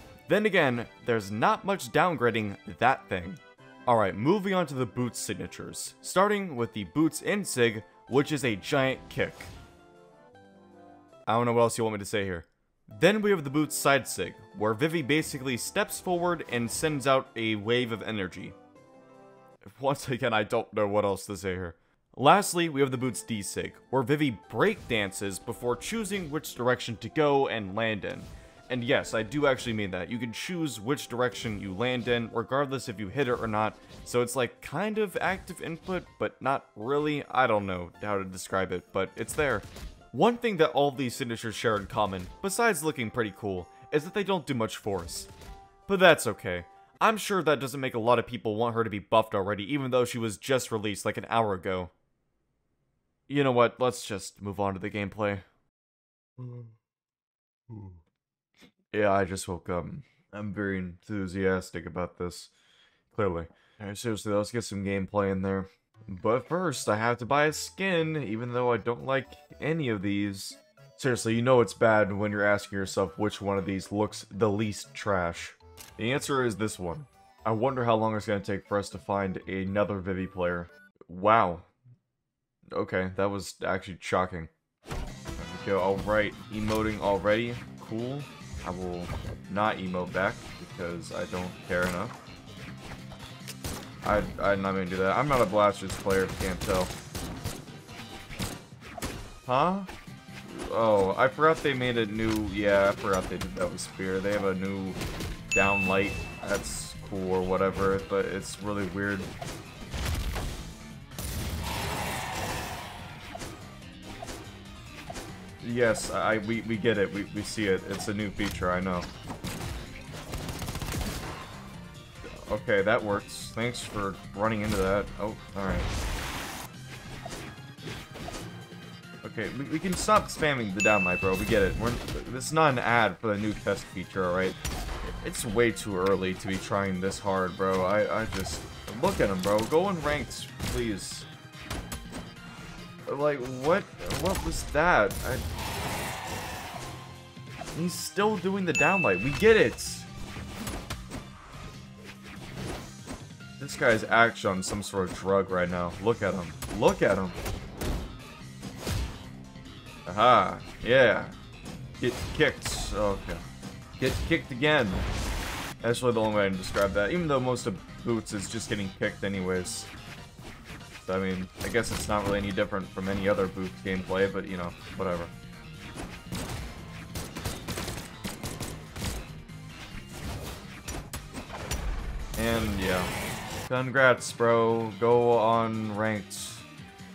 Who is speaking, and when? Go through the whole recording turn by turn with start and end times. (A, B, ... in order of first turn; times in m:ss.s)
0:00.3-0:09.5 A
0:11.2-0:18.6 A
0:19.6-0:45.3 A
0:45.9-0:51.9 A
0:53.3-0:55.4 A
0:56.4-0:56.7 A
0:57.7-0:58.0 A
0:58.9-1:02.5 A
1:03.1-1:21.7 A
1:22.7-1:24.5 A
1:25.4-1:32.2 A
1:34.0-1:36.9 A
1:39.5-1:39.9 A
1:40.4-1:45.0 A
1:45.5-1:49.3 A
1:55.6-1:59.1 A
2:02.2-2:05.9 A
2:09.2-2:21.3 A
2:23.1-2:25.4 A
2:27.7-2:30.1 A
2:33.6-2:37.4 A
2:40.0-2:41.4 A
2:42.0-2:43.4 A
2:44.0-2:45.0 A
2:45.8-2:49.9 A
2:51.0-2:55.3 A
3:02.4-3:03.1 A
3:03.6-3:06.7 A